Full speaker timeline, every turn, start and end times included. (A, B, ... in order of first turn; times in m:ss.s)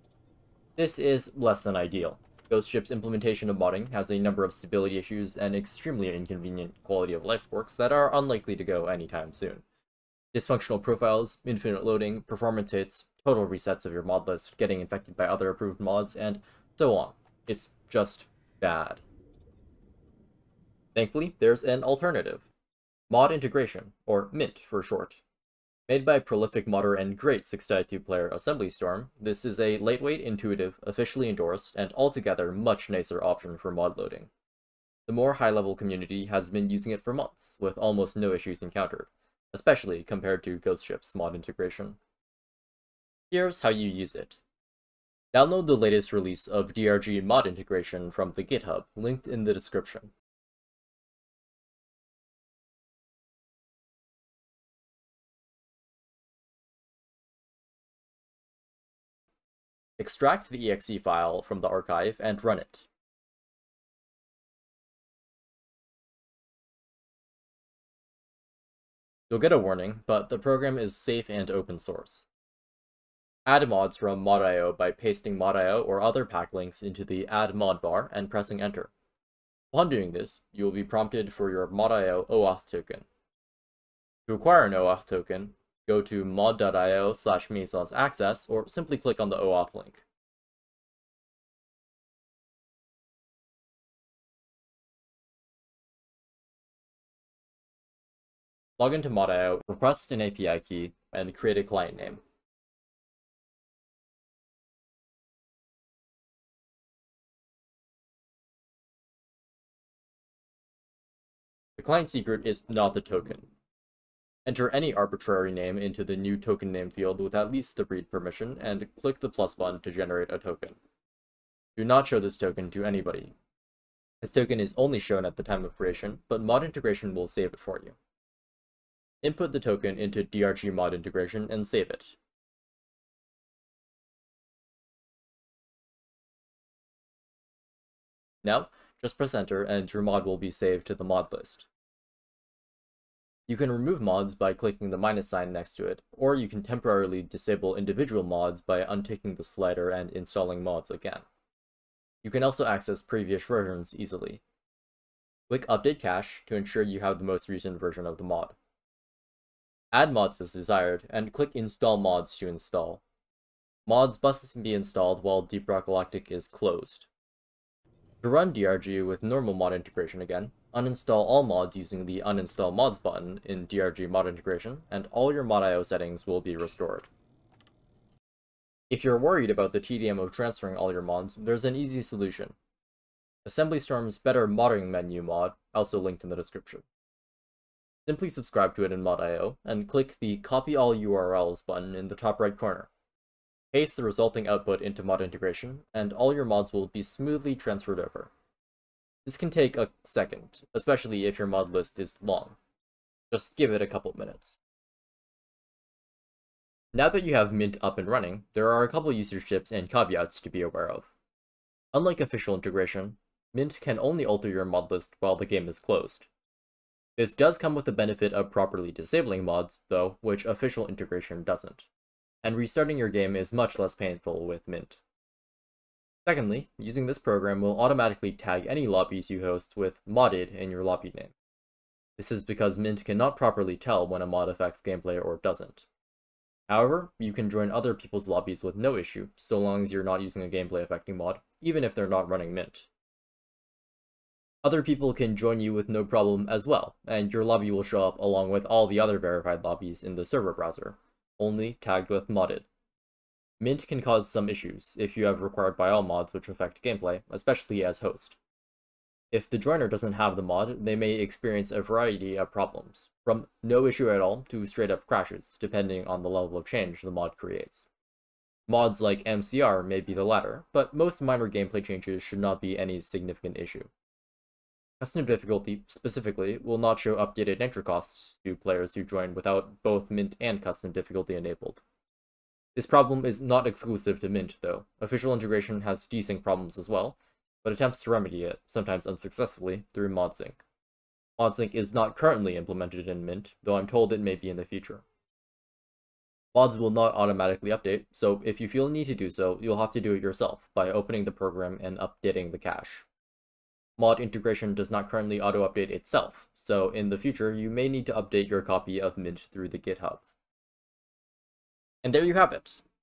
0:00.8-0:09.6 A
0:10.3-0:19.0 A
0:20.9-0:22.5 A
0:23.1-0:25.2 A
0:25.9-0:34.3 A
0:35.1-0:42.0 A
0:43.3-0:44.4 A
0:45.3-0:50.1 A
1:00.0-1:02.9 A
1:09.3-1:12.3 A
1:13.4-1:18.9 A
1:19.7-1:23.0 A
1:24.3-1:30.0 A
1:38.8-1:42.2 A
1:51.8-1:53.5 A
1:54.4-2:00.8 A
2:01.8-2:03.3 A
2:04.2-2:08.0 A
2:09.2-2:12.2 A
2:18.4-2:21.7 A
2:23.5-2:31.2 A
2:32.2-2:34.4 A
2:35.5-2:38.6 A
2:39.9-2:43.0 A
2:43.9-2:47.1 A
2:48.2-2:57.1 A
2:58.9-3:02.6 A
3:03.4-3:06.8 A
3:08.0-3:12.9 A
3:13.7-3:18.3 A
3:19.2-3:22.6 A
3:23.3-3:24.6 A
3:26.9-3:31.1 A
3:31.9-3:36.3 A
3:37.2-3:41.9 A
3:42.4-3:45.0 A
3:46.2-3:51.3 A
3:52.2-3:55.8 A
3:56.7-4:02.9 A
4:04.6-4:12.7 A
4:13.6-4:18.4 A
4:19.3-4:27.9 A
4:28.7-4:33.9 A
4:35.0-4:41.8 A
4:42.7-4:50.6 A
4:51.4-4:55.0 A
4:56.5-5:03.0 A
5:04.0-5:10.3 A
5:12.0-5:12.8 A